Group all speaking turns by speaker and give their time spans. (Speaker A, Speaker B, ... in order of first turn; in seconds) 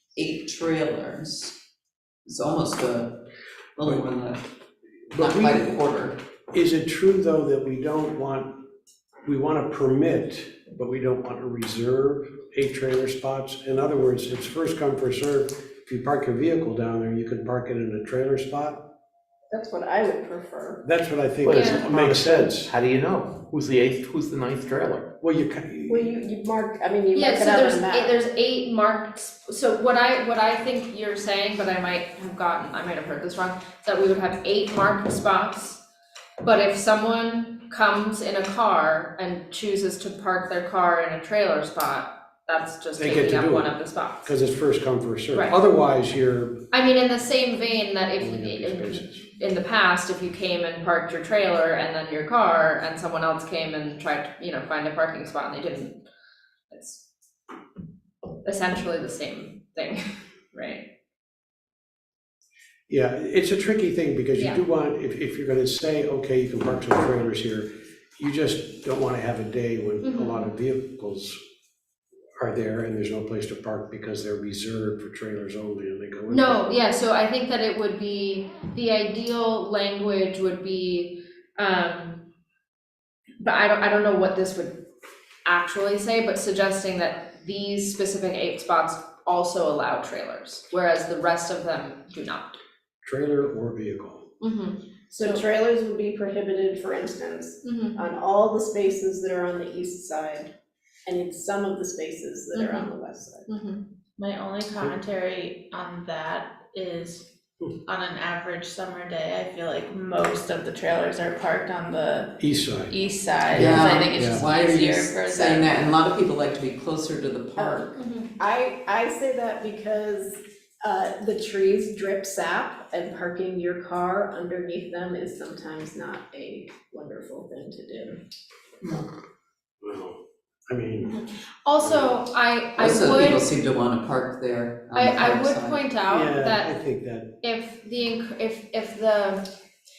Speaker A: 0.1-1.5, 2.2-3.2, 3.8-4.4, 5.1-6.2, 113.5-117.9, 132.8-135.8
Speaker B: 5.1-5.8, 6.5-8.5, 9.2-18.8, 20.8-22.7, 25.2-26.1, 43.0-46.6, 48.2-49.2, 62.9-71.4, 72.4-76.6, 93.0-94.2, 112.4-112.9, 113.5-114.4, 129.8-131.2, 131.8-132.2, 136.1-137.3
Speaker C: 19.5-20.8, 25.9-28.1, 95.1-100.5, 101.0-103.5, 117.6-128.2
Speaker D: 21.4-25.1
Speaker E: 21.5-21.8, 27.1-35.8, 36.4-44.3, 45.3-45.6, 46.7-56.0, 56.7-57.0, 58.4-60.0, 60.5-60.8, 70.0-70.5, 76.3-82.2, 83.4-84.8, 85.4-92.6, 94.4-95.4, 97.6-98.0, 102.5-102.9, 103.5-103.8, 117.9-118.3, 131.0-133.5, 134.9-136.8, 137.4-139.5
Speaker F: 104.2-107.3, 107.8-115.8